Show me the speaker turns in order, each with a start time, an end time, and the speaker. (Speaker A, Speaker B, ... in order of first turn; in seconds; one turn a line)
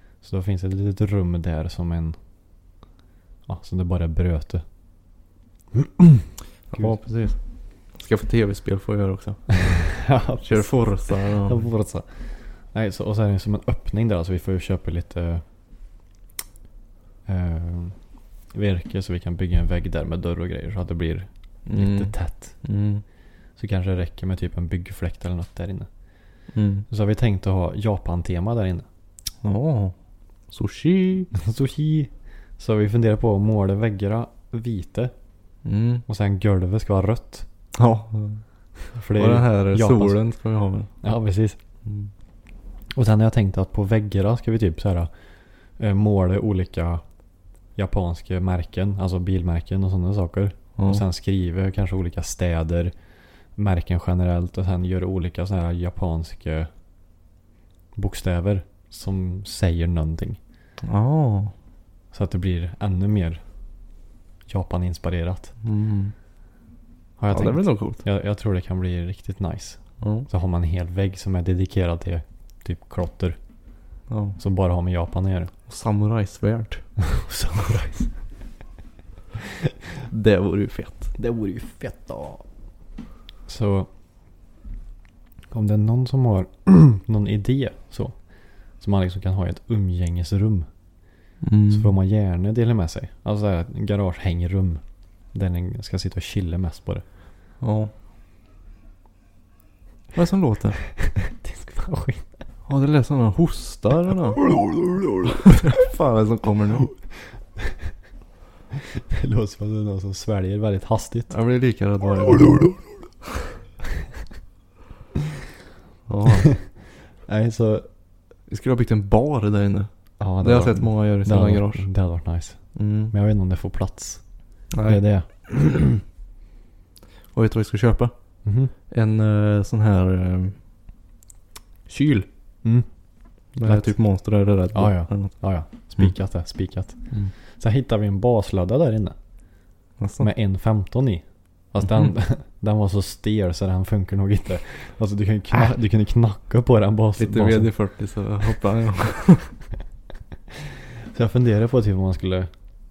Speaker A: 0.2-2.2
Speaker A: 3.5-4.6
Speaker A: 5.7-6.2
Speaker B: 6.7-7.4
Speaker B: 8.0-9.9
Speaker A: 9.6-10.9
Speaker B: 10.4-11.7
Speaker A: 11.4-15.4
Speaker A: 17.3-17.9
Speaker A: 18.5-22.6
Speaker B: 21.7-23.0
Speaker A: 23.6-25.9
Speaker B: 26.5-26.9
Speaker A: 26.9-28.9
Speaker B: 29.4-29.9
Speaker B: 30.5-31.3
Speaker A: 31.3-35.1
Speaker B: 35.6-36.0
Speaker A: 36.1-37.5
Speaker B: 37.8-38.4
Speaker A: 39.0-40.2
Speaker B: 39.1-40.9
Speaker A: 41.0-41.6
Speaker A: 42.9-45.1
Speaker A: 45.8-47.0
Speaker A: 47.8-52.9
Speaker B: 50.8-51.0
Speaker A: 53.5-56.7
Speaker A: 58.0-60.4
Speaker B: 60.8-61.5
Speaker A: 62.1-63.4
Speaker A: 64.5-65.5
Speaker B: 65.6-66.1
Speaker A: 67.2-73.4
Speaker B: 67.3-68.0
Speaker B: 70.0-70.3
Speaker B: 74.1-74.4
Speaker A: 74.4-75.5
Speaker B: 75.7-76.8
Speaker A: 77.0-78.1
Speaker B: 80.1-81.1
Speaker A: 81.2-82.4
Speaker A: 83.5-83.9
Speaker A: 85.5-88.2
Speaker A: 88.8-90.7
Speaker B: 91.4-92.0
Speaker A: 91.7-94.8
Speaker A: 95.3-97.0
Speaker B: 97.6-97.9
Speaker B: 100.1-100.8
Speaker A: 101.0-102.3
Speaker B: 102.7-104.5
Speaker B: 105.3-106.9
Speaker A: 108.9-111.3
Speaker B: 111.3-112.8
Speaker B: 116.1-116.5
Speaker A: 117.3-117.9
Speaker B: 118.5-119.9
Speaker A: 120.2-124.2
Speaker B: 120.4-121.9
Speaker B: 122.8-123.1
Speaker B: 124.7-125.0
Speaker A: 124.8-126.0
Speaker B: 127.3-128.1
Speaker A: 128.4-128.7
Speaker B: 128.9-130.6
Speaker B: 131.9-132.3
Speaker B: 133.6-135.3
Speaker A: 133.6-133.9
Speaker A: 134.7-137.0
Speaker A: 137.6-139.2
Speaker B: 140.0-140.3
Speaker A: 140.2-147.7
Speaker B: 147.2-149.5
Speaker A: 151.1-152.5